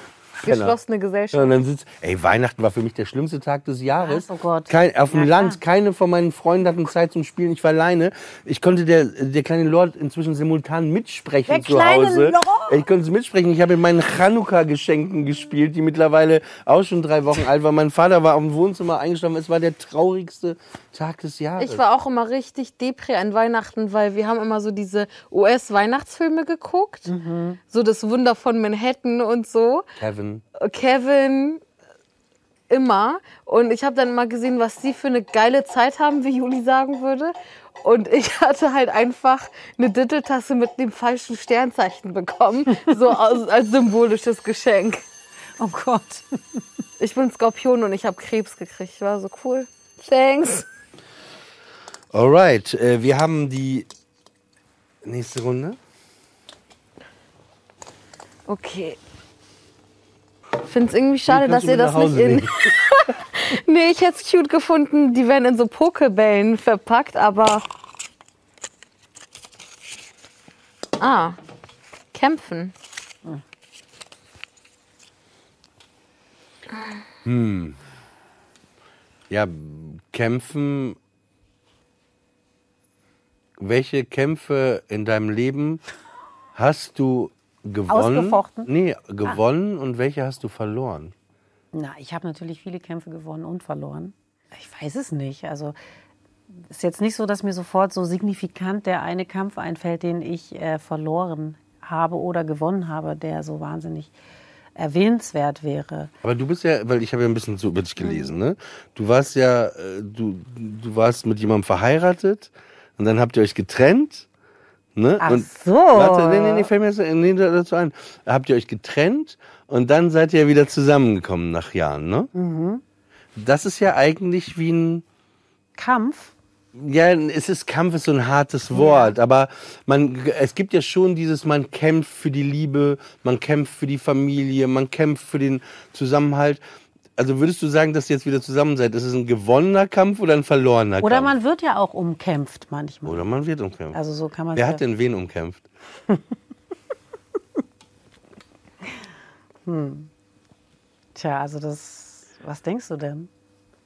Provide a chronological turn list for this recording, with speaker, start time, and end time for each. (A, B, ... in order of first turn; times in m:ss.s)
0:00.4-0:00.8 A
0:00.4-0:01.5 B
0:01.3-0:21.8 A
0:04.0-0:05.6 C
0:11.5-0:12.8 C
0:21.6-0:27.1 B
0:27.1-0:27.6 C
0:27.7-0:29.8 B
0:30.0-0:30.4 A
0:30.6-0:31.6 B
0:32.7-0:45.0 B
0:45.6-0:46.6 C
0:47.0-0:50.7 B
0:52.1-0:53.9 A
0:55.0-0:55.8 A
0:58.5-0:59.0 B
1:00.7-1:07.6 B
1:01.3-1:02.7 A
1:11.0-1:11.4 B
1:12.1-1:12.7 B
1:17.2-1:17.8 A
1:19.3-1:21.0 A
1:23.6-1:25.8 A
1:26.6-1:31.1 A
1:27.9-1:28.7 C
1:31.7-1:35.8 C
1:36.7-1:44.1 C
1:44.8-1:46.1 C
1:46.2-1:54.3 A
1:55.0-2:02.3 A
1:55.2-1:56.7 C
2:02.3-2:02.8 C
2:03.4-2:05.0 A
2:05.8-2:06.4 C
2:06.7-2:16.6 A
2:08.7-2:09.1 C
2:17.2-2:21.4 A
2:21.0-2:23.3 C
2:23.1-2:24.0 A
2:23.9-2:24.8 C
2:24.6-2:25.7 A
2:29.7-2:30.1 C
2:31.2-2:33.3 C